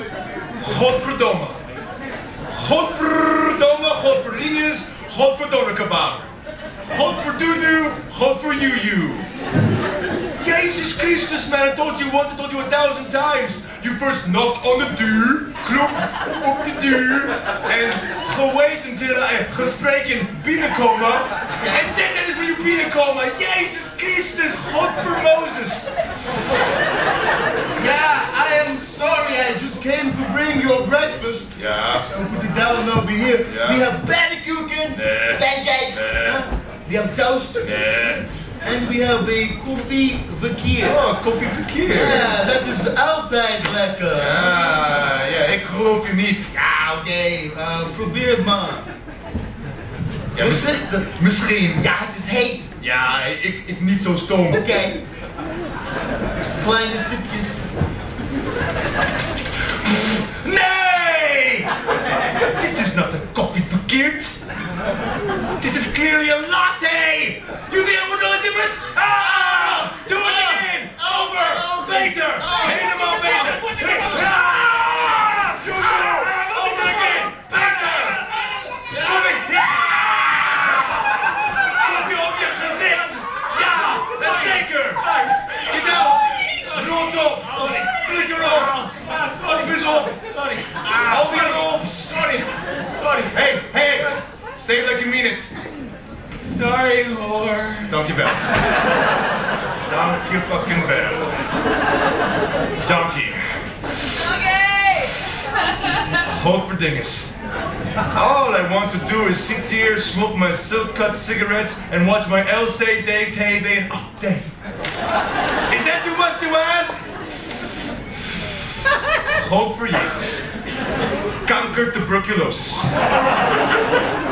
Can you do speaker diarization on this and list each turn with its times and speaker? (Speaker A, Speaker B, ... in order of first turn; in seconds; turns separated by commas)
Speaker A: 0.6-1.6, Speaker A: 2.5-6.2, Speaker A: 6.9-9.3, Speaker A: 10.4-25.9, Speaker B: 21.6-21.9, Speaker B: 27.8-31.5, Speaker A: 31.6-32.1, Speaker B: 32.1-41.0, Speaker A: 33.5-33.9, Speaker A: 35.0-36.4, Speaker A: 37.6-38.3, Speaker A: 40.8-42.4, Speaker B: 41.9-44.8, Speaker A: 44.2-46.5, Speaker B: 46.5-48.9, Speaker A: 50.3-51.8, Speaker B: 50.4-52.7, Speaker A: 52.8-54.8, Speaker B: 54.5-55.0, Speaker B: 56.6-57.7, Speaker A: 59.8-61.7, Speaker A: 62.4-64.3, Speaker A: 65.6-78.2, Speaker B: 71.3-72.7, Speaker C: 71.8-74.3, Speaker C: 75.1-75.5, Speaker C: 76.0-78.1, Speaker C: 78.8-80.3, Speaker A: 78.9-81.0, Speaker A: 81.6-85.0, Speaker C: 82.8-93.4, Speaker A: 85.7-88.8, Speaker A: 89.4-90.1, Speaker A: 90.9-92.3, Speaker A: 93.3-95.5, Speaker C: 96.4-98.0, Speaker A: 97.9-98.5, Speaker A: 99.9-101.3, Speaker A: 102.8-103.4, Speaker A: 106.2-107.3, Speaker A: 108.1-114.5, Speaker A: 115.7-117.0, Speaker A: 119.2-120.4, Speaker A: 121.5-122.9